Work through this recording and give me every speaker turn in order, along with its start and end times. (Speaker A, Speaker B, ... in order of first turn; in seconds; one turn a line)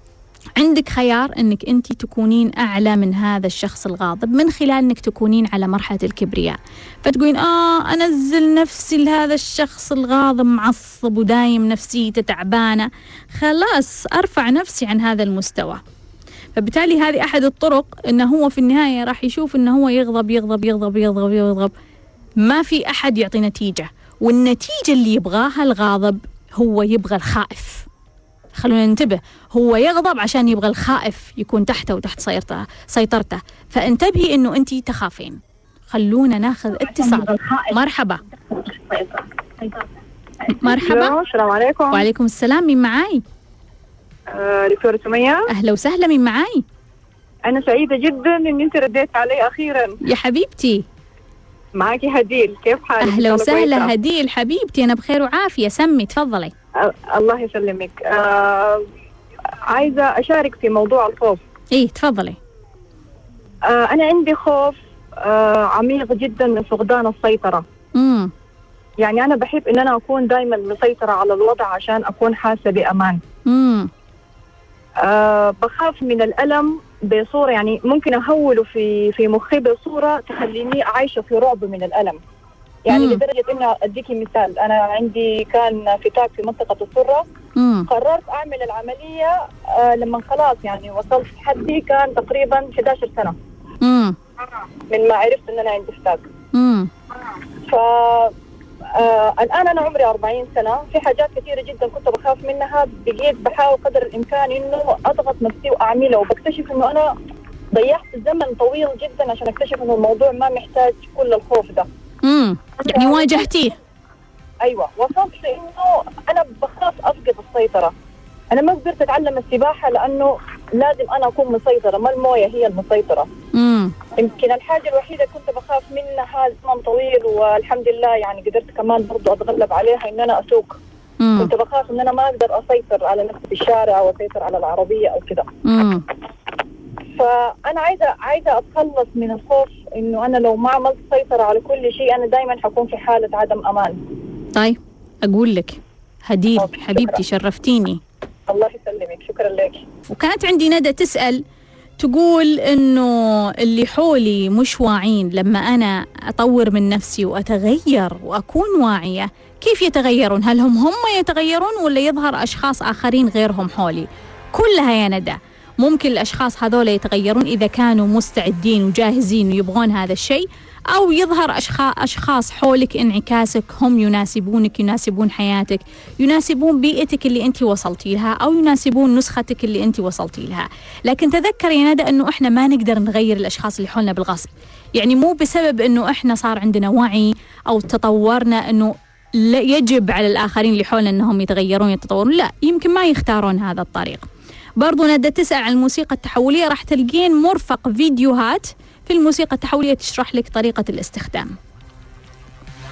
Speaker A: 0.6-15.8
Speaker A: 16.6-21.7
Speaker A: 22.4-27.9
Speaker A: 28.6-35.4
Speaker A: 35.9-38.2
Speaker B: 37.0-37.7
Speaker B: 38.6-39.8
Speaker B: 40.5-42.0
Speaker A: 40.6-41.1
Speaker A: 41.9-43.2
Speaker B: 44.3-45.4
Speaker A: 45.5-46.6
Speaker B: 47.5-50.0
Speaker A: 50.0-50.8
Speaker B: 51.8-53.9
Speaker A: 53.0-56.5
Speaker B: 56.8-58.9
Speaker B: 59.7-61.4
Speaker A: 61.7-62.4
Speaker B: 63.7-67.6
Speaker A: 68.0-68.3
Speaker B: 69.0-73.2
Speaker A: 73.5-73.9
Speaker B: 75.0-82.2
Speaker B: 82.9-87.2
Speaker A: 82.9-83.2
Speaker A: 87.5-87.9
Speaker B: 87.9-93.3
Speaker A: 93.8-94.2
Speaker B: 94.9-96.2
Speaker A: 96.5-96.9
Speaker B: 97.7-98.3
Speaker B: 99.0-107.1
Speaker B: 107.7-111.9
Speaker A: 112.2-113.7
Speaker B: 112.9-113.5
Speaker B: 114.6-117.9
Speaker B: 118.5-123.3
Speaker A: 123.5-124.0
Speaker B: 124.1-130.8
Speaker A: 131.2-131.5
Speaker B: 131.4-135.5
Speaker A: 135.6-136.0
Speaker B: 137.2-144.0
Speaker A: 144.5-148.0
Speaker B: 148.5-149.8
Speaker A: 150.1-151.4
Speaker A: 152.0-194.2
Speaker A: 194.8-201.5